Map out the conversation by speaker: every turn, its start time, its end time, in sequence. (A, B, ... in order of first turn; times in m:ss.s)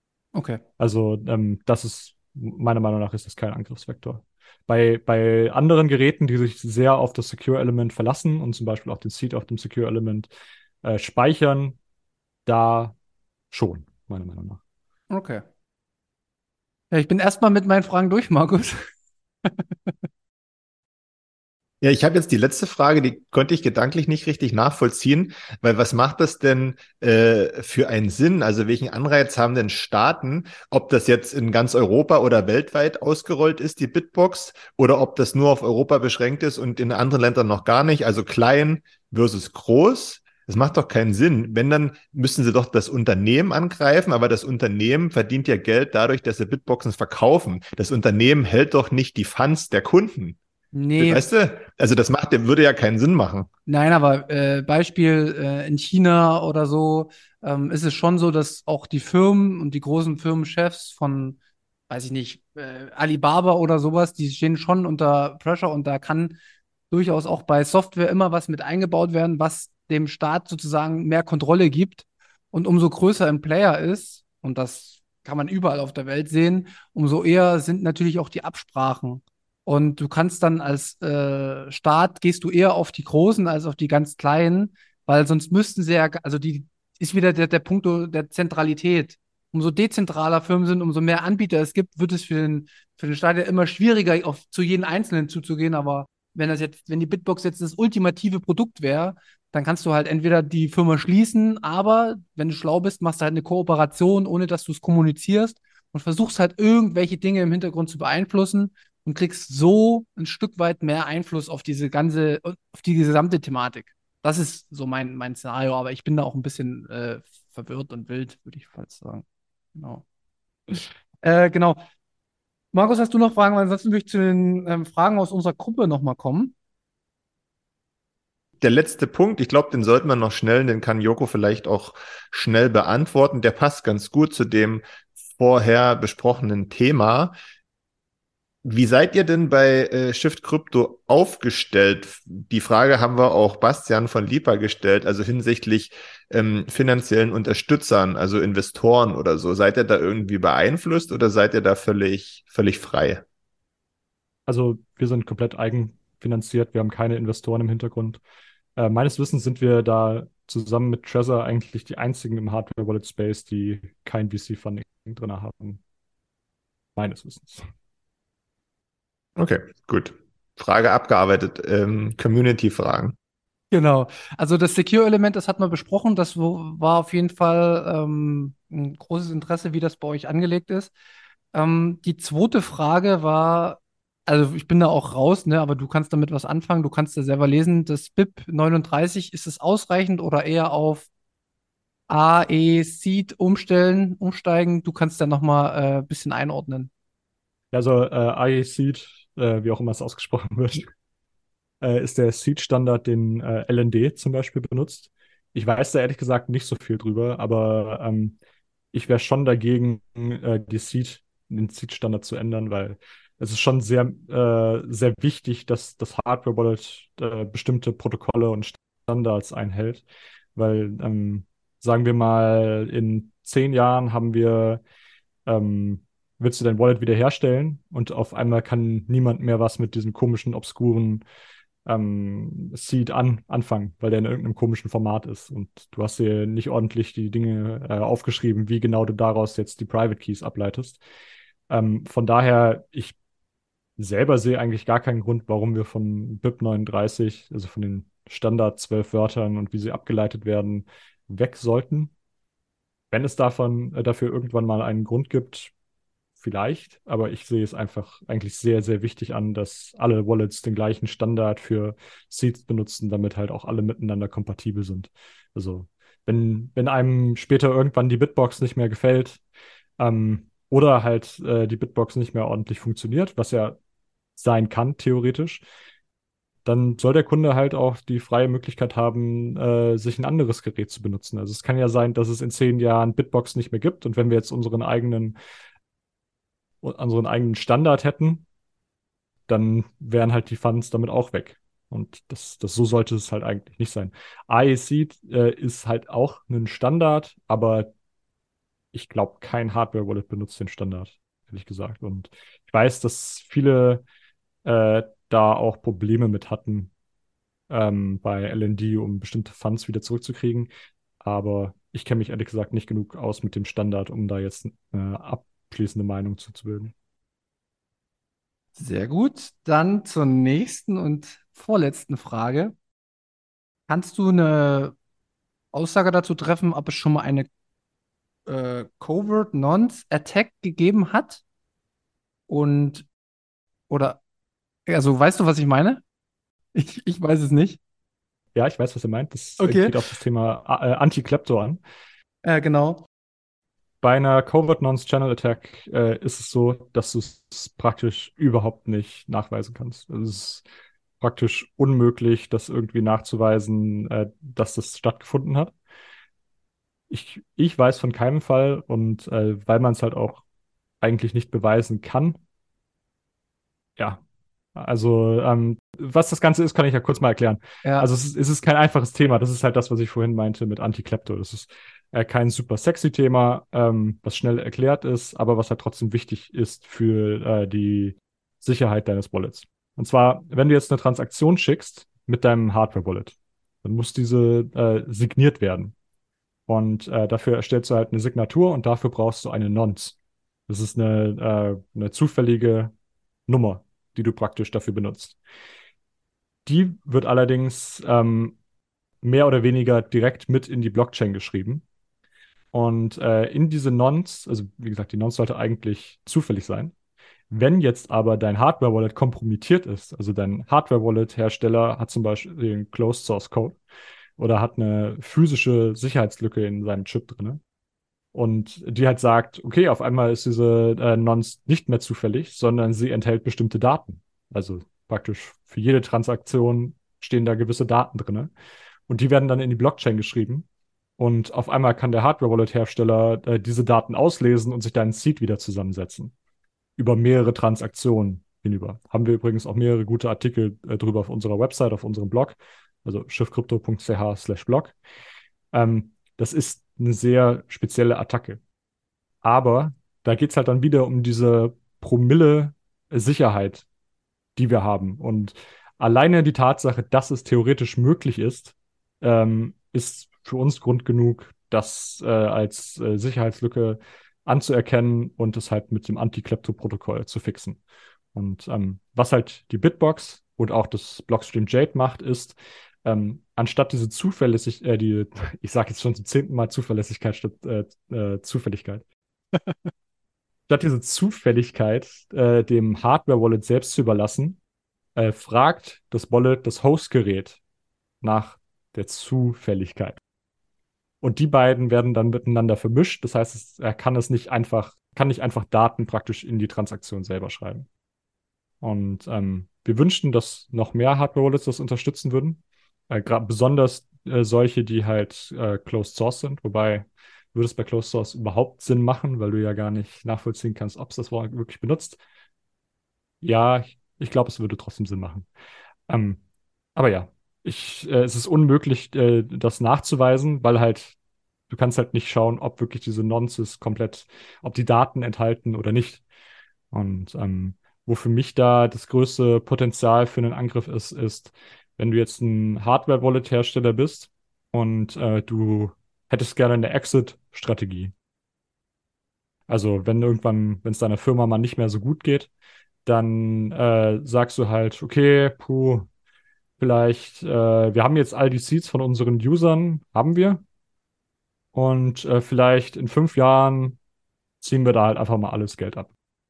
0:00.3-0:00.6 A
0:00.8-0:10.3 B
0:10.8-0:11.8 B
0:12.4-0:12.9 B
0:13.5-0:14.6 B
0:15.1-0:15.4 A
0:16.9-0:18.8 A
0:19.4-0:19.9 A
0:21.8-0:50.4 C
0:50.7-0:51.3 A
0:51.0-0:53.5 C
0:53.7-1:01.4 A
1:01.9-1:06.4 A
1:06.9-1:59.2 A
1:59.8-2:00.0 A
2:00.7-2:01.8 A
2:02.7-2:06.5 A
2:08.6-2:17.3 C
2:18.6-2:33.2 C
2:34.5-2:38.2 B
2:38.8-2:45.8 B
2:47.0-2:47.6 B
2:49.4-2:53.1 C
2:53.7-3:00.9 A
3:01.5-3:11.1 A
3:12.1-3:16.9 A
3:17.7-3:20.8 B
3:21.8-3:28.4 B
3:28.9-3:40.0 B
3:40.6-3:44.8 B
3:45.4-3:51.2 B
3:51.8-4:01.0 B
4:01.7-4:03.2 B
4:04.0-4:12.1 B
4:13.1-4:15.7 B
4:16.4-4:29.4 B
4:30.0-4:33.8 B
4:34.4-4:35.6 B
4:36.6-4:45.4 B
4:46.8-4:48.4 B
4:49.5-4:57.9 B
4:58.9-5:04.0 B
5:04.6-5:06.9 B
5:07.7-5:10.7 B
5:11.2-5:16.9 B
5:18.8-5:22.7 A
5:23.9-5:24.9 A
5:25.7-5:27.5 A
5:28.5-5:31.4 A
5:32.5-5:33.1 A
5:33.9-5:34.2 A
5:34.9-5:36.0 A
5:36.7-5:37.8 A
5:38.5-5:41.8 B
5:39.6-5:40.0 A
5:42.4-5:43.0 A
5:44.0-5:50.6 B
5:51.2-5:55.7 B
5:57.1-6:00.4 B
6:01.0-6:02.4 B
6:04.8-6:25.9 B
6:07.8-6:08.1 A
6:26.7-6:30.2 B
6:30.7-6:32.9 B
6:33.5-6:35.4 B
6:36.6-6:38.6 B
6:39.2-6:41.8 B
6:42.7-6:46.9 B
6:47.5-6:53.8 B
6:54.4-6:57.6 B
6:58.3-7:08.5 B
7:09.1-7:10.6 B
7:11.2-7:16.3 B
7:17.0-7:24.9 B
7:25.7-7:28.6 B
7:29.4-7:33.8 B
7:34.6-7:47.8 B
7:48.3-7:59.0 B
7:59.5-7:59.9 A
8:00.7-8:04.6 B
8:05.2-8:07.6 B
8:08.2-8:10.2 B
8:11.2-8:17.9 B
8:18.8-8:32.2 B
8:33.4-8:35.5 B
8:36.1-8:36.4 B
8:36.9-8:41.1 B
8:41.7-8:46.2 B
8:46.9-8:58.1 B
8:59.7-9:02.5 B
9:03.0-9:06.1 B
9:06.8-9:10.6 B
9:11.7-9:14.0 B
9:14.6-9:16.1 B